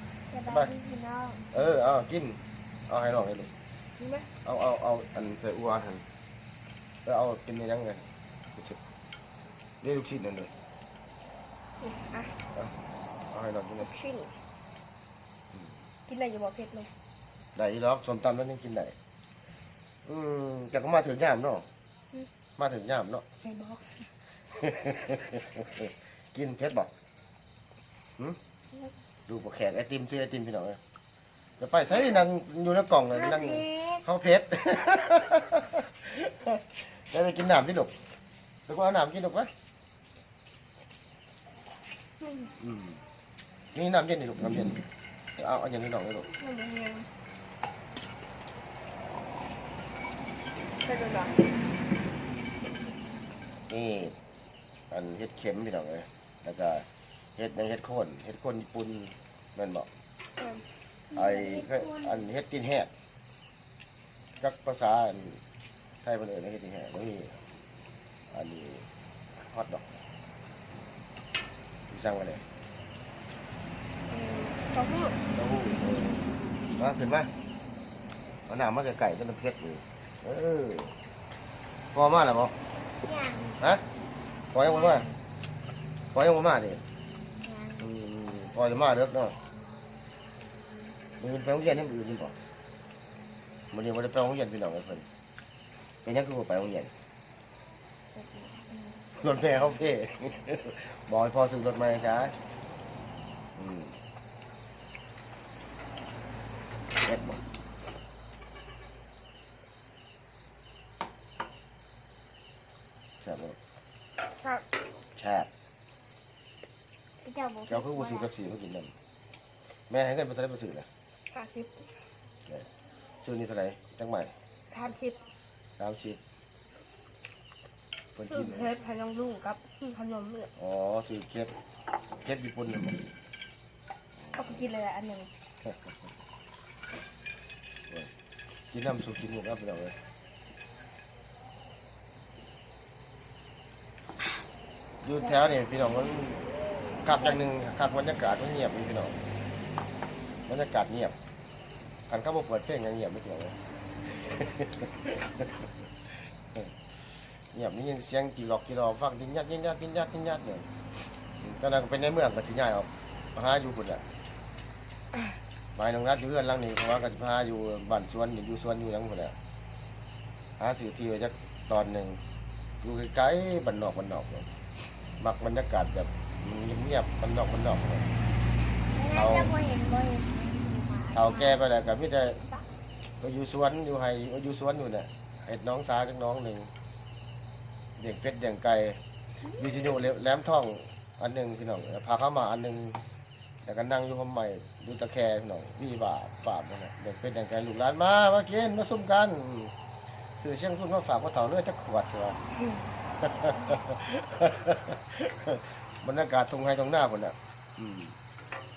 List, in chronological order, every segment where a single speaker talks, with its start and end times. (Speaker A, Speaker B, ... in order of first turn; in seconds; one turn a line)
Speaker A: 0.3-1.4
Speaker B: 0.5-0.7
Speaker B: 1.5-3.5
Speaker C: 4.0-4.3
Speaker B: 4.4-6.0
Speaker B: 7.0-8.1
Speaker B: 9.8-10.5
Speaker C: 11.8-12.4
Speaker B: 13.3-13.9
Speaker C: 13.8-14.4
Speaker C: 16.1-16.9
Speaker B: 17.6-18.9
Speaker B: 20.1-21.7
Speaker B: 22.6-23.2
Speaker C: 23.4-24.1
Speaker B: 24.5-26.9
Speaker B: 29.3-30.8
Speaker B: 31.6-37.9
Speaker A: 33.2-34.0
Speaker B: 38.7-39.5
Speaker C: 42.2-42.5
Speaker B: 42.6-43.0
Speaker B: 43.7-44.8
Speaker B: 45.4-46.3
Speaker C: 46.3-47.1
Speaker C: 50.8-51.5
Speaker B: 53.7-54.1
Speaker B: 54.9-56.9
Speaker B: 57.4-59.9
Speaker C: 60.4-60.6
Speaker A: 61.1-62.2
Speaker B: 61.1-62.9
Speaker B: 64.4-65.4
Speaker B: 66.0-67.4
Speaker B: 68.3-68.9
Speaker B: 69.4-70.0
Speaker B: 71.9-72.4
Speaker C: 74.1-75.2
Speaker B: 75.3-77.3
Speaker B: 78.5-81.0
Speaker B: 81.9-82.6
Speaker A: 83.0-83.6
Speaker B: 84.5-85.1
Speaker A: 84.7-85.1
Speaker B: 86.1-86.8
Speaker A: 87.4-87.8
Speaker B: 87.8-89.4
Speaker B: 91.2-92.4
Speaker B: 93.7-95.1
Speaker B: 96.0-96.9
Speaker A: 98.2-99.0
Speaker B: 99.2-102.3
Speaker B: 103.6-104.0
Speaker B: 107.0-107.4
Speaker B: 113.2-113.6
Speaker C: 114.4-114.7
Speaker B: 115.2-115.5
Speaker A: 117.2-118.3
Speaker B: 117.7-118.9
Speaker B: 119.9-120.9
Speaker C: 121.3-121.7
Speaker B: 123.2-124.3
Speaker C: 124.7-125.2
Speaker B: 125.8-126.2
Speaker B: 128.2-128.7
Speaker C: 128.3-130.5
Speaker B: 130.6-131.5
Speaker B: 132.2-133.0
Speaker B: 134.2-134.7
Speaker C: 134.3-135.3
Speaker B: 135.7-135.9
Speaker B: 138.7-140.0
Speaker B: 145.0-146.5
Speaker B: 147.0-149.2
Speaker B: 150.5-151.2
Speaker B: 152.1-155.7
Speaker B: 157.5-160.7
Speaker B: 161.4-164.0
Speaker B: 165.8-169.4
Speaker B: 170.6-172.2
Speaker B: 172.8-174.5
Speaker B: 175.2-178.1
Speaker A: 178.9-181.6
Speaker B: 179.1-179.5
Speaker B: 181.1-182.4
Speaker B: 183.2-186.7
Speaker B: 188.0-193.0
Speaker B: 193.6-199.7
Speaker B: 200.4-202.4
Speaker B: 203.2-208.2